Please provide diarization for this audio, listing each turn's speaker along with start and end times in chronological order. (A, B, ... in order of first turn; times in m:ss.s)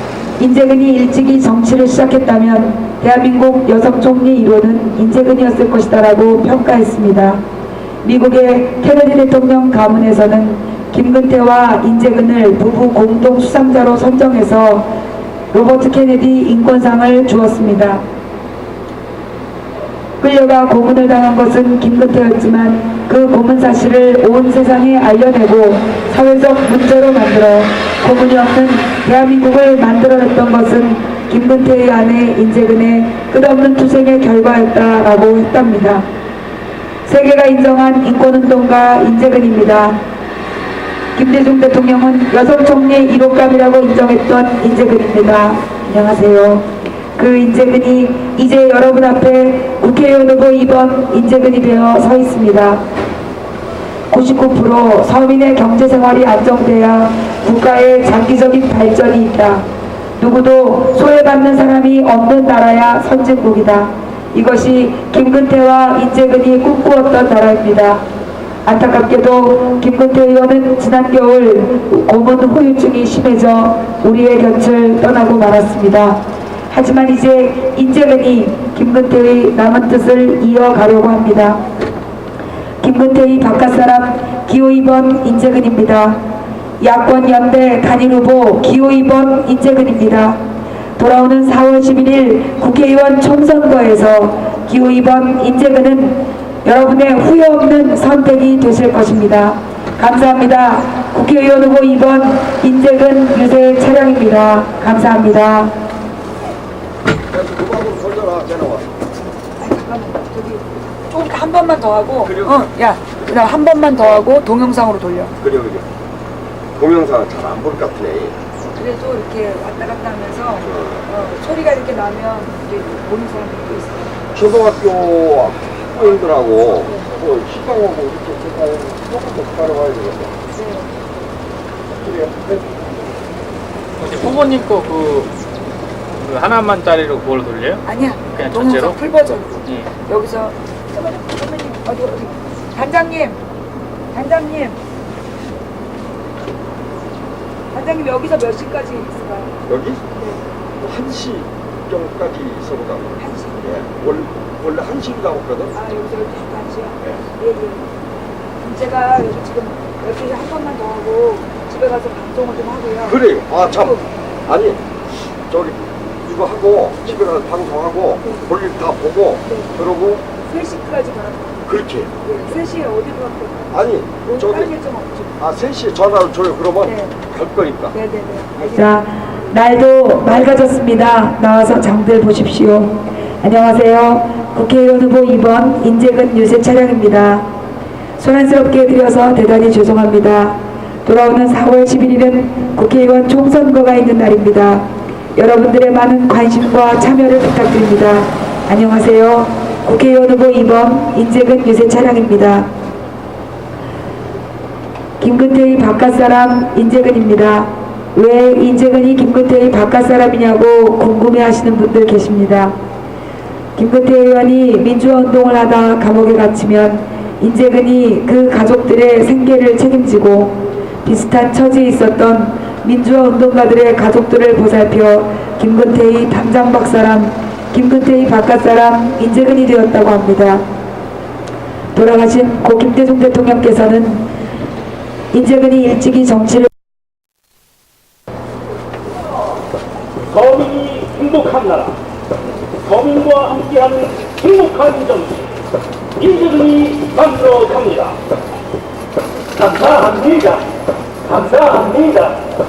0:00.4-0:07.4 A
0:08.0-0:14.9 A
0:15.5-0:18.0 A
0:20.2-0:36.1 A
0:37.1-0:40.0 A
0:41.2-0:52.8 A
0:54.1-1:08.1 A
1:08.6-1:21.6 A
1:22.8-1:30.4 A
1:31.0-1:45.8 A
1:47.3-1:48.9 B
1:49.6-1:55.3 A
1:52.2-1:52.7 B
1:55.4-1:55.9 B
1:56.8-1:58.4 B
1:58.8-2:04.2 A
2:00.6-2:01.1 B
2:04.3-2:10.4 B
2:10.5-2:10.9 A
2:12.0-2:12.8 B
2:14.0-2:15.3 C
2:16.2-2:19.9 C
2:17.8-2:23.4 A
2:24.1-2:24.8 A
2:27.7-2:29.6 A
2:29.7-2:30.0 B
2:30.2-2:30.4 A
2:30.8-2:35.7 B
2:33.2-2:34.0 A
2:35.7-2:37.9 A
2:38.6-2:44.1 A
2:43.0-2:44.8 B
2:45.5-2:50.2 B
2:48.2-2:48.5 A
2:49.4-2:49.7 A
2:50.3-2:55.4 A
2:51.7-2:52.1 B
2:53.7-2:54.7 B
2:55.4-2:58.0 B
2:56.8-2:57.2 A
2:57.9-3:07.5 A
3:08.2-3:22.7 A
3:25.2-3:32.8 A
3:33.8-3:50.7 A
3:51.9-3:54.3 A
3:55.3-3:56.7 A
4:00.3-4:01.9 D
4:02.8-4:05.5 D
4:06.2-4:08.2 D
4:09.6-4:10.7 D
4:11.3-4:12.4 D